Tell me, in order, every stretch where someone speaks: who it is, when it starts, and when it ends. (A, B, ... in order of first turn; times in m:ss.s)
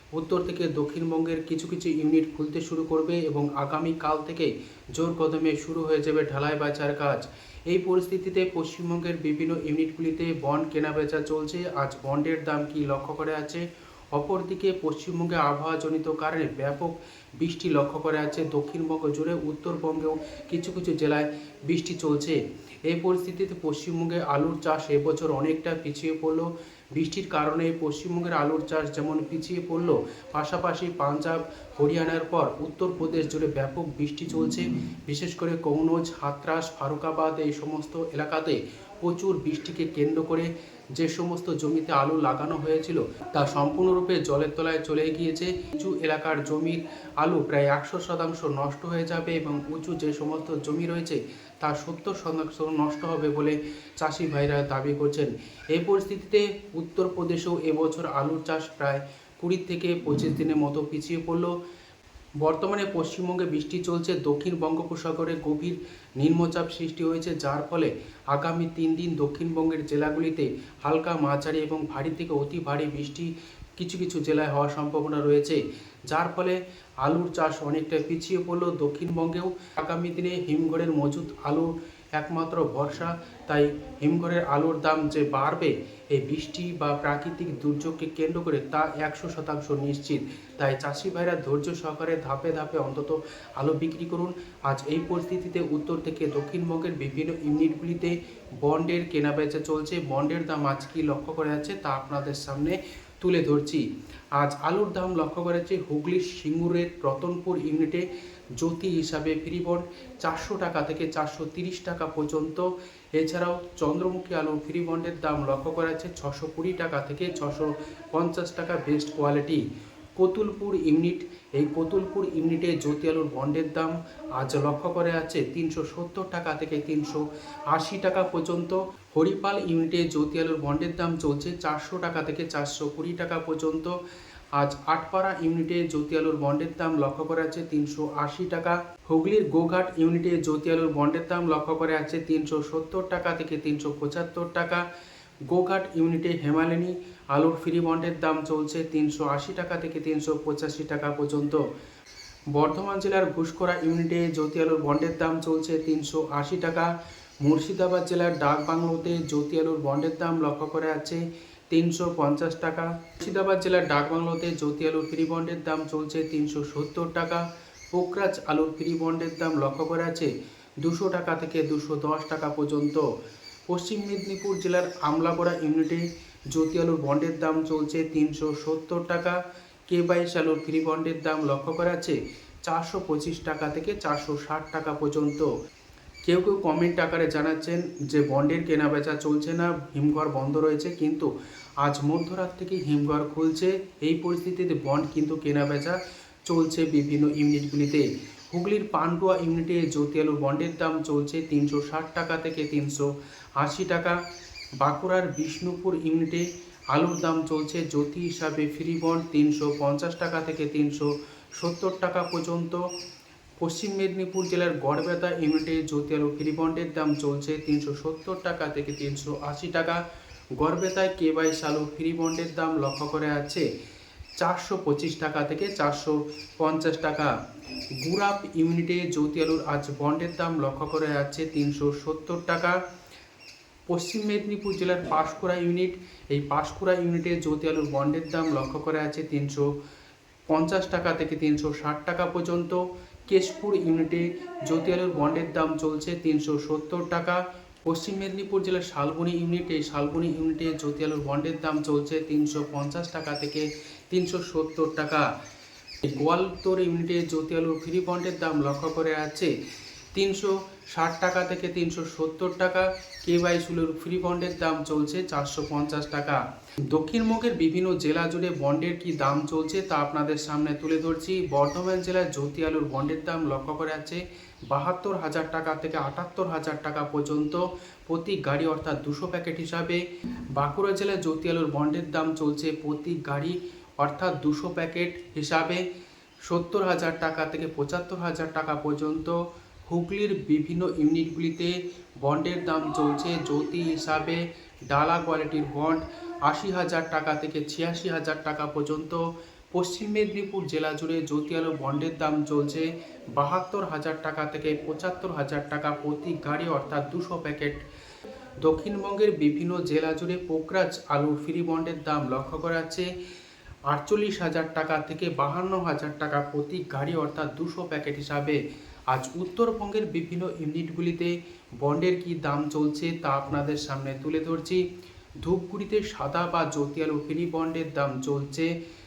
0:00.2-1:01.5 A
1:02.4-1:48.1 A
1:48.6-1:59.6 A
2:00.2-2:14.0 A
2:14.6-2:24.8 A
2:25.5-2:31.6 A
2:32.5-2:50.3 A
2:50.8-2:53.0 A
2:53.7-2:59.4 A
2:59.9-3:05.5 A
3:06.3-3:23.1 A
3:23.6-3:24.2 A
3:24.8-3:32.8 A
3:33.6-3:40.0 A
3:40.6-3:43.6 A
3:44.4-3:47.3 A
3:48.0-3:52.8 A
3:53.9-3:59.7 A
4:00.5-4:15.3 A
4:16.0-4:19.5 A
4:20.1-4:45.8 A
4:46.5-5:07.8 A
5:08.6-5:13.1 A
5:13.9-5:24.8 A
5:25.4-5:28.7 A